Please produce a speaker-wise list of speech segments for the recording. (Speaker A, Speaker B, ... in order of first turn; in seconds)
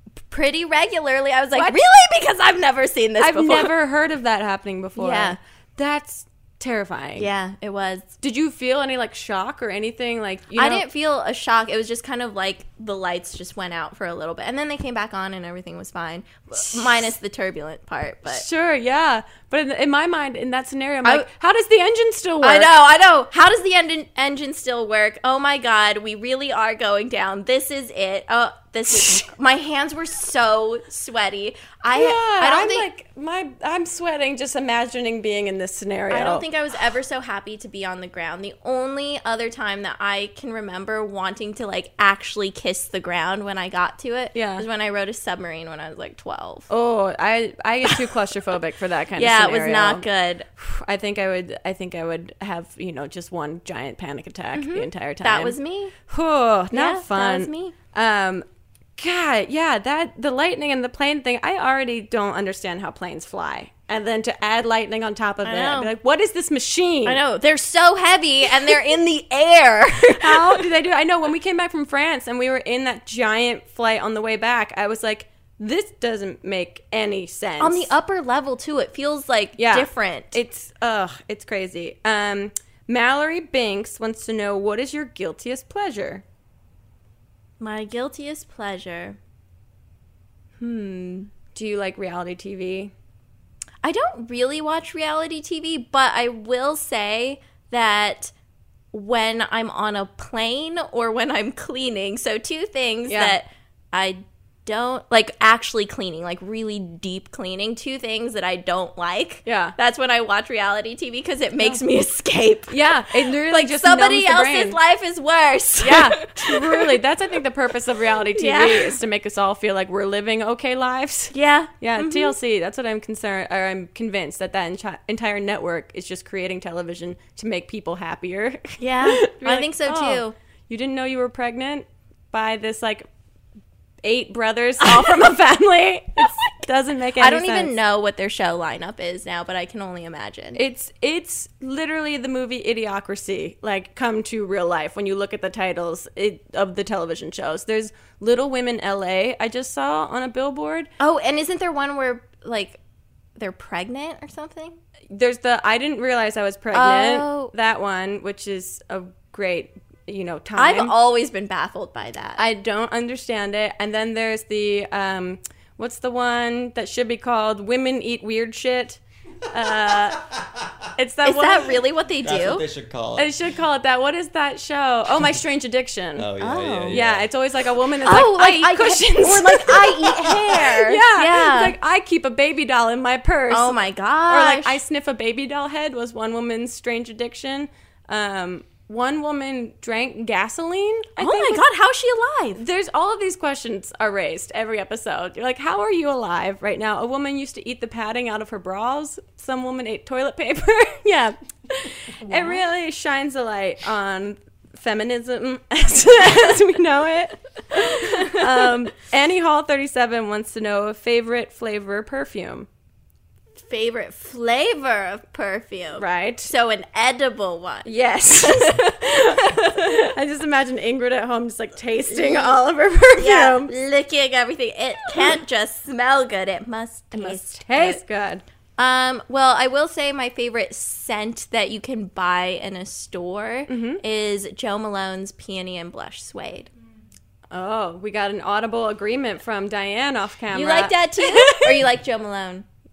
Speaker A: 0.3-3.7, 5.0-5.4, 7.2-8.1, 10.5-18.4, 22.4-32.9, 36.1-46.7, 49.2-50.5, 54.5-55.9, 56.7-57.7, 65.4-65.9, 67.0-70.6, 77.6-80.4, 87.6-89.2, 90.6-91.3, 93.8-98.3, 98.9-117.0, 118.3-119.0, 121.3-122.4, 128.8-130.3, 137.2-140.6, 151.0-152.8, 153.4-154.8, 156.7-157.5, 160.6-162.4, 171.2-172.7, 176.4-177.0, 178.0-181.8, 183.5-184.8, 191.2-192.6, 202.2-202.6, 207.9-208.6, 213.6-220.1, 222.1-222.5, 223.2-228.0, 228.8-236.7, 240.5-242.7
Speaker B: 3.2-7.3, 8.2-10.8, 18.3-22.8, 31.9-36.5, 44.3-44.7, 46.7-50.1, 50.6-58.5, 59.0-67.2, 70.2-77.9, 79.6-86.2, 91.5-92.9, 103.1-103.4, 109.5-109.8, 112.7-114.8, 115.8-133.1, 134.0-137.7, 140.6-150.9, 155.1-160.9, 162.4-170.3, 171.0-171.8, 173.2-176.3, 176.9-191.7, 192.6-212.7, 216.0-216.5, 217.8-223.7, 225.1-225.4, 227.1-228.4, 233.7-234.0, 237.5-241.9
Speaker C: 172.2-173.3, 176.2-177.3